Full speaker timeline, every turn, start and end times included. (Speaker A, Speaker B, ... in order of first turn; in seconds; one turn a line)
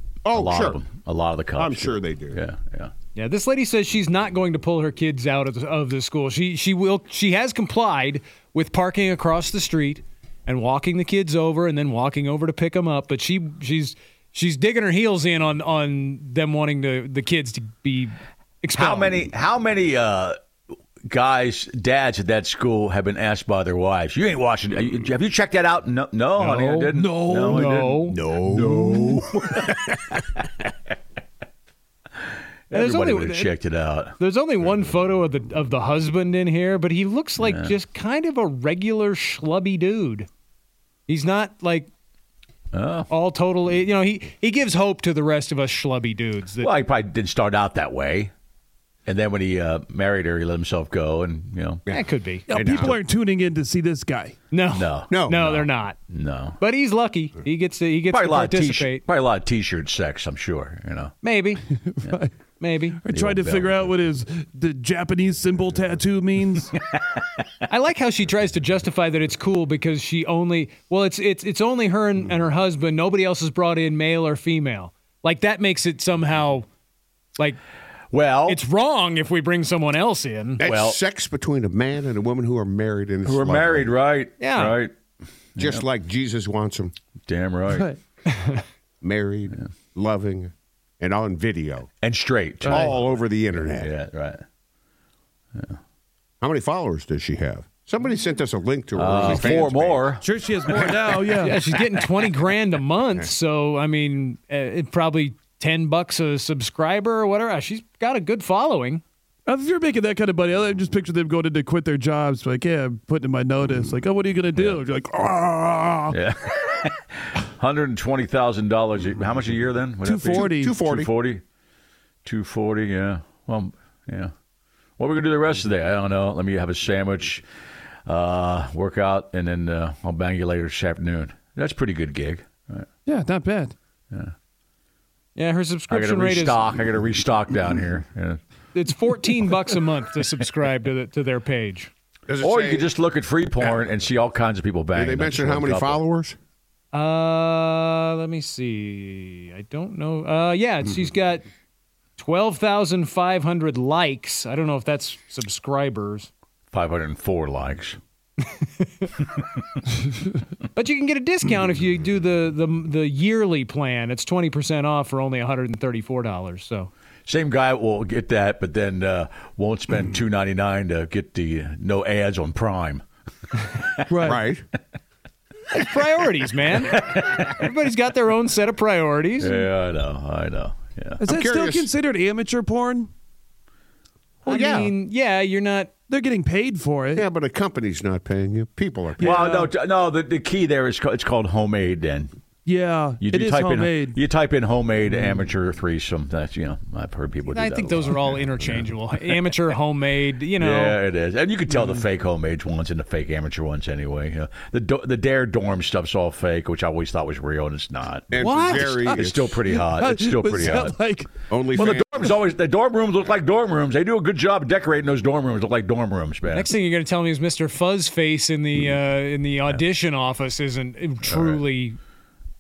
Speaker A: 0.2-0.8
Speaker B: 0.3-2.9
Speaker A: 1.6-2.4
Speaker C: 3.1-19.2
Speaker B: 18.7-20.4
Speaker B: 21.1-29.8
Speaker C: 26.4-26.9
Speaker D: 26.9-27.9
Speaker C: 27.4-28.2
Speaker A: 28.1-29.8
Speaker D: 28.6-29.1
Speaker B: 32.7-34.1
Speaker C: 32.7-33.5
Speaker C: 34.2-40.3
Speaker B: 37.4-37.7
Speaker C: 41.1-41.9
Speaker B: 42.7-43.1
Speaker C: 43.1-46.7
Speaker B: 46.6-48.3
Speaker B: 49.1-51.8
Speaker A: 51.9-53.0
Speaker C: 51.9-52.5
Speaker D: 52.5-54.4
Speaker C: 54.5-56.0
Speaker B: 54.8-56.6
Speaker A: 55.1-55.4
Speaker C: 56.6-59.0
Speaker B: 58.1-61.1
Speaker C: 61.2-61.6
Speaker D: 62.0-62.3
Speaker C: 62.6-63.0
Speaker D: 63.0-66.7
Speaker B: 63.1-64.0
Speaker C: 67.7-76.7
Speaker B: 78.1-78.6
Speaker C: 78.5-80.6
Speaker A: 80.6-83.9
Speaker B: 80.7-81.0
Speaker B: 83.2-84.9
Speaker C: 84.4-84.8
Speaker B: 85.6-85.9
Speaker A: 85.6-86.9
Speaker B: 87.3-87.9
Speaker D: 87.7-88.0
Speaker A: 89.0-91.9
Speaker B: 92.0-94.4
Speaker A: 92.6-93.9
Speaker A: 96.4-100.1
Speaker B: 99.0-101.0
Speaker D: 100.2-101.6
Speaker C: 101.4-109.0
Speaker D: 109.5-116.2
Speaker B: 116.1-121.4
Speaker D: 120.0-120.8
Speaker A: 120.3-121.1
Speaker B: 122.2-124.3
Speaker B: 125.0-127.4
Speaker B: 128.1-132.9
Speaker D: 133.1-133.7
Speaker C: 135.4-136.7
Speaker B: 135.9-138.4
Speaker C: 138.8-141.9
Speaker A: 142.3-142.9
Speaker B: 142.4-146.0
Speaker A: 143.6-143.9
Speaker A: 144.9-146.4
Speaker C: 146.9-151.4
Speaker C: 152.2-156.3
Speaker B: 156.7-158.0
Speaker C: 160.8-166.9
Speaker B: 167.3-173.0
Speaker D: 174.1-174.4
Speaker A: 174.2-174.6
Speaker C: 175.7-179.7
Speaker B: 176.9-177.6
Speaker B: 179.4-181.2
Speaker D: 181.2-183.1
Speaker A: 181.2-181.9
Speaker C: 184.4-185.9
Speaker A: 184.5-184.9
Speaker D: 186.1-187.3
Speaker A: 187.2-189.5
Speaker D: 189.2-189.7
Speaker B: 189.2-192.3
Speaker D: 192.7-194.2
Speaker B: 193.2-198.9
Speaker D: 195.1-195.4
Speaker C: 197.5-201.0
Speaker B: 200.6-211.0
Speaker A: 208.3-209.6
Speaker C: 208.4-208.9
Speaker D: 208.7-211.3
Speaker A: 211.5-212.3
Speaker B: 211.7-216.7
Speaker C: 216.5-222.0
Speaker B: 221.2-221.6